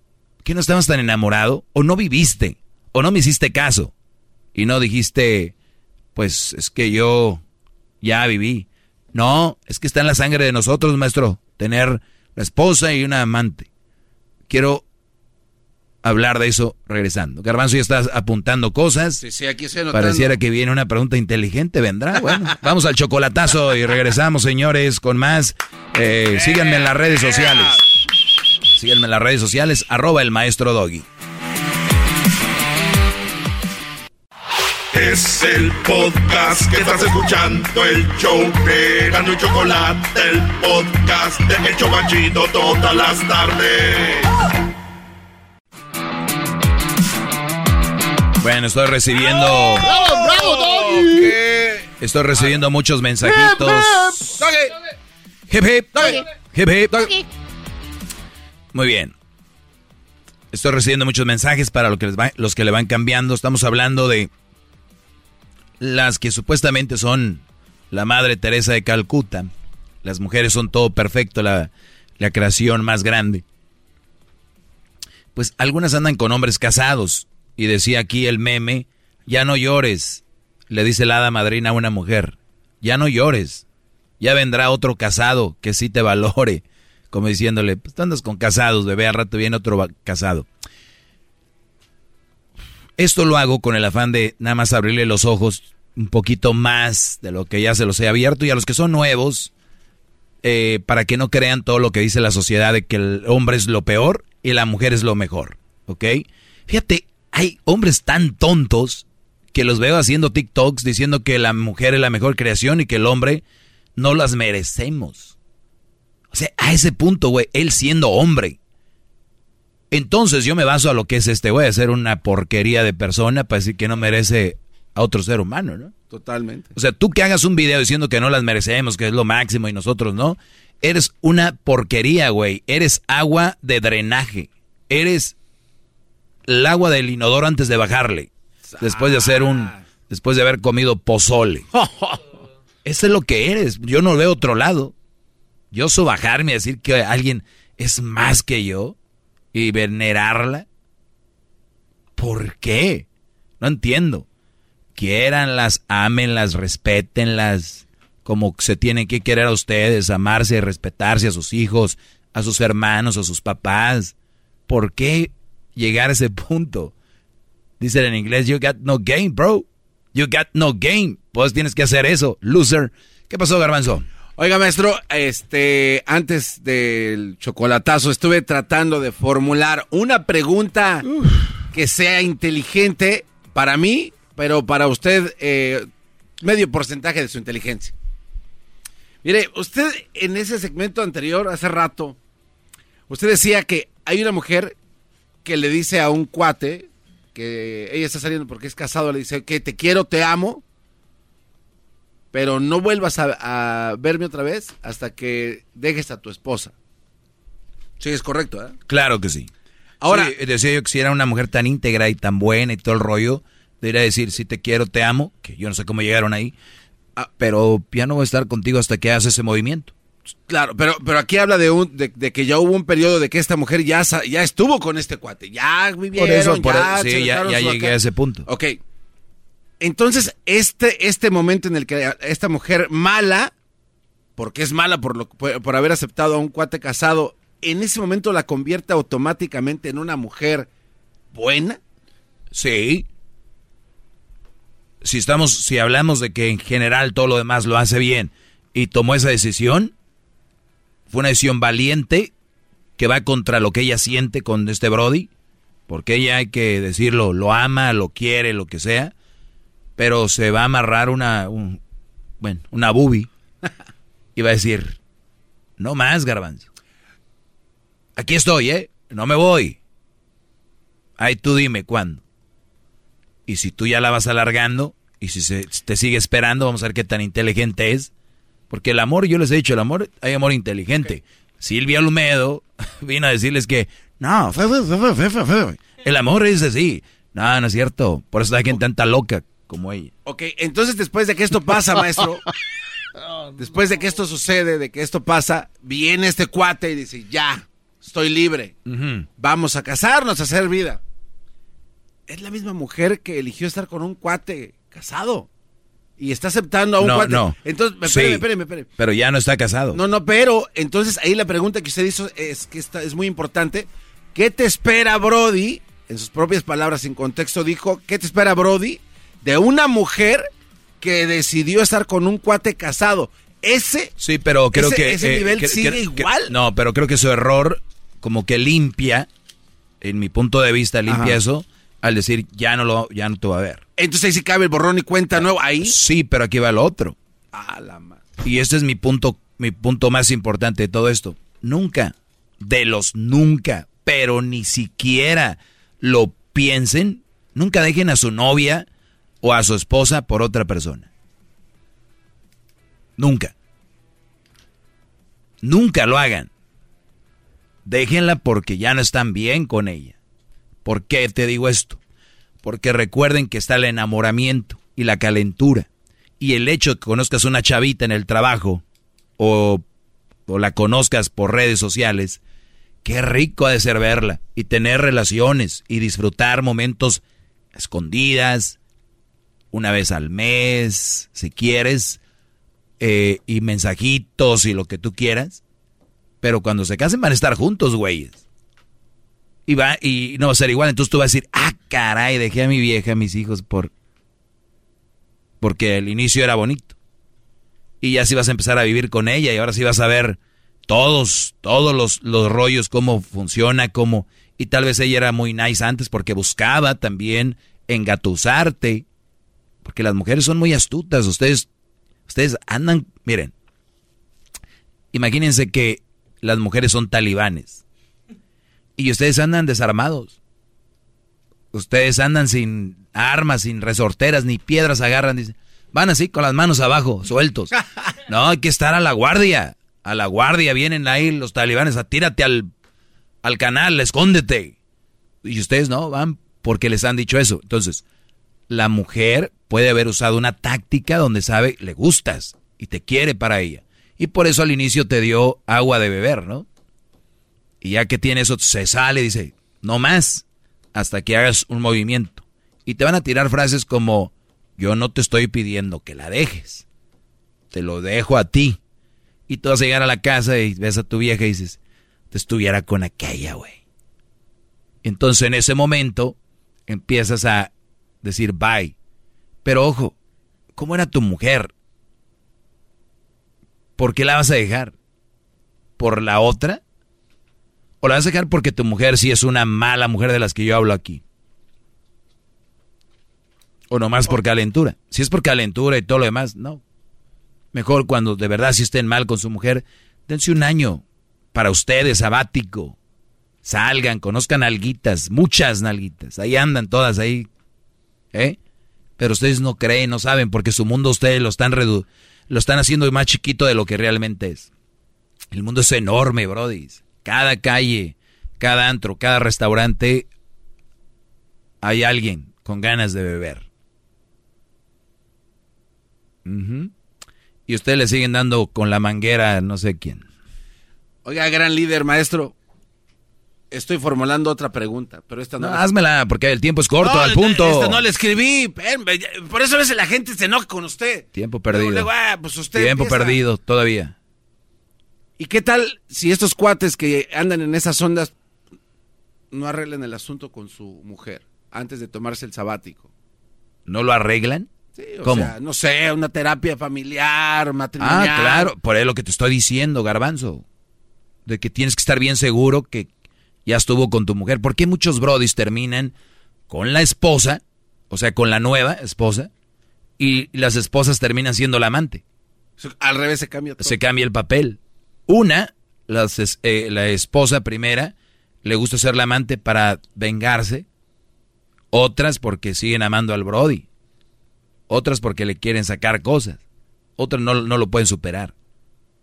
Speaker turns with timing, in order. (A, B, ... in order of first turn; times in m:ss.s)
0:00.4-0:03.9 A
0:04.6-0:05.5 A
0:06.2-0:07.4 A
0:08.0-0:13.7 A
0:14.5-0:14.8 A
0:16.0-0:19.2 A
0:19.2-0:20.4 B
0:19.9-0:27.8 A
0:26.3-0:27.8 B
0:28.7-0:31.1 A
0:34.9-0:44.3 C
0:48.4-0:50.0 A
0:49.2-0:52.6 B
0:52.0-0:54.2 A
0:53.2-0:54.8 B
0:55.5-0:57.1 A
0:55.9-0:56.3 B
0:58.7-0:59.1 A
1:00.5-1:04.3 A
1:05.8-1:09.5 A
1:10.0-1:13.4 A
1:15.4-1:23.6 A
1:24.2-1:30.5 A
1:33.0-1:39.5 A
1:40.4-1:53.4 A
1:54.0-1:55.4 A
1:56.3-1:58.6 A
1:59.9-2:05.9 A
2:06.1-2:06.7 B
2:06.7-2:15.4 A
2:16.5-2:21.7 A
2:18.7-2:19.8 B
2:21.7-2:22.2 B
2:22.8-2:24.9 A
2:25.7-2:29.0 A
2:29.5-2:30.7 A
2:32.2-2:33.1 A
2:33.6-2:34.3 A
2:35.0-2:44.1 A
2:44.7-2:46.9 A
2:47.8-2:54.1 A
2:54.4-3:01.0 B
3:01.7-3:05.8 B
3:06.4-3:07.9 B
3:09.2-3:12.2 B
3:13.1-3:14.8 B
3:15.4-3:20.6 B
3:22.3-3:26.7 B
3:28.0-3:28.8 B
3:28.9-3:29.5 A
3:30.0-3:30.3 B
3:30.0-3:36.5 A
3:37.2-3:39.9 A
3:40.5-3:48.0 B
3:46.1-3:48.5 A
3:48.5-3:48.8 B
3:49.8-3:53.5 B
3:54.4-4:00.7 B
4:01.3-4:01.8 B
4:02.5-4:03.1 A
4:05.0-4:09.9 A
4:11.1-4:12.3 A
4:13.0-4:15.3 A
4:15.9-4:19.1 A
4:20.0-4:21.8 A
4:22.4-4:23.3 A
4:24.4-4:25.0 A
4:25.8-4:26.7 A
4:28.2-4:29.8 A
4:31.2-4:32.2 A
4:33.5-4:38.1 A
4:38.7-4:44.0 A
4:44.2-4:45.8 B
4:46.0-4:50.1 A
4:50.2-4:52.4 B
4:53.6-4:58.8 B
4:58.9-4:59.3 A
4:59.4-5:01.0 B
5:02.3-5:05.5 B
5:06.2-5:08.9 B
5:07.0-5:08.4 A
5:09.0-5:10.0 A
5:09.9-5:20.5 B
5:21.0-5:24.1 B
5:24.2-5:29.3 A
5:24.7-5:26.5 B
5:30.0-5:33.8 A
5:31.1-5:31.4 B
5:34.0-5:36.0 B
5:35.4-5:37.2 A
5:37.5-5:38.4 B
5:38.4-5:48.9 A
5:49.4-5:51.1 A
5:53.2-5:53.5 A
5:55.6-5:56.5 A
5:57.8-6:00.2 A
6:00.8-6:02.0 A
6:02.6-6:05.9 A
6:06.4-6:08.8 A
6:09.4-6:09.8 A
6:10.5-6:12.4 A
6:13.0-6:17.2 A
6:17.8-6:18.8 A
6:19.7-6:22.2 A
6:23.0-6:25.6 A
6:26.4-6:28.4 A
6:29.7-6:33.9 A
6:35.6-6:37.0 A
6:38.0-6:49.0 A
6:49.8-6:51.7 A
6:52.3-6:53.5 A
6:55.1-6:57.8 A
6:59.0-7:00.4 A
7:01.7-7:07.7 A
7:08.3-7:12.7 A
7:13.4-7:14.8 A
7:15.4-7:18.0 A
7:18.7-7:26.7 A
7:27.8-7:36.8 A
7:37.7-7:38.8 A
7:39.5-7:41.8 A
7:42.3-7:43.8 A
7:45.0-7:47.7 A
7:48.2-7:49.0 A
7:49.6-7:50.2 A
7:50.8-7:51.7 A
7:54.0-7:54.9 A
7:56.0-7:56.8 A
7:58.0-8:01.2 A
8:03.9-8:06.8 A
8:07.7-8:11.0 A
8:11.5-8:13.0 A
8:13.6-8:17.5 A
8:18.3-8:18.6 A
8:19.2-8:24.7 A
8:25.5-8:30.3 A
8:31.8-8:33.7 A
8:36.4-8:36.9 A
8:37.7-8:40.3 A
8:41.2-8:42.5 B
8:43.7-8:45.8 B
8:45.6-8:48.0 A
8:47.0-8:53.4 B
8:51.3-8:52.1 A
8:52.8-8:54.2 A
8:55.4-8:58.3 B
8:59.5-9:03.1 B
9:03.9-9:04.7 A
9:05.0-9:08.7 B
9:05.2-9:05.5 A
9:08.0-9:10.6 A
9:11.5-9:13.1 A
9:13.7-9:16.1 A
9:16.7-9:19.5 A
9:20.2-9:22.2 A
9:22.8-9:24.0 B
9:23.8-9:30.9 A
9:31.9-9:33.8 A
9:34.9-9:36.6 A
9:37.2-9:38.5 A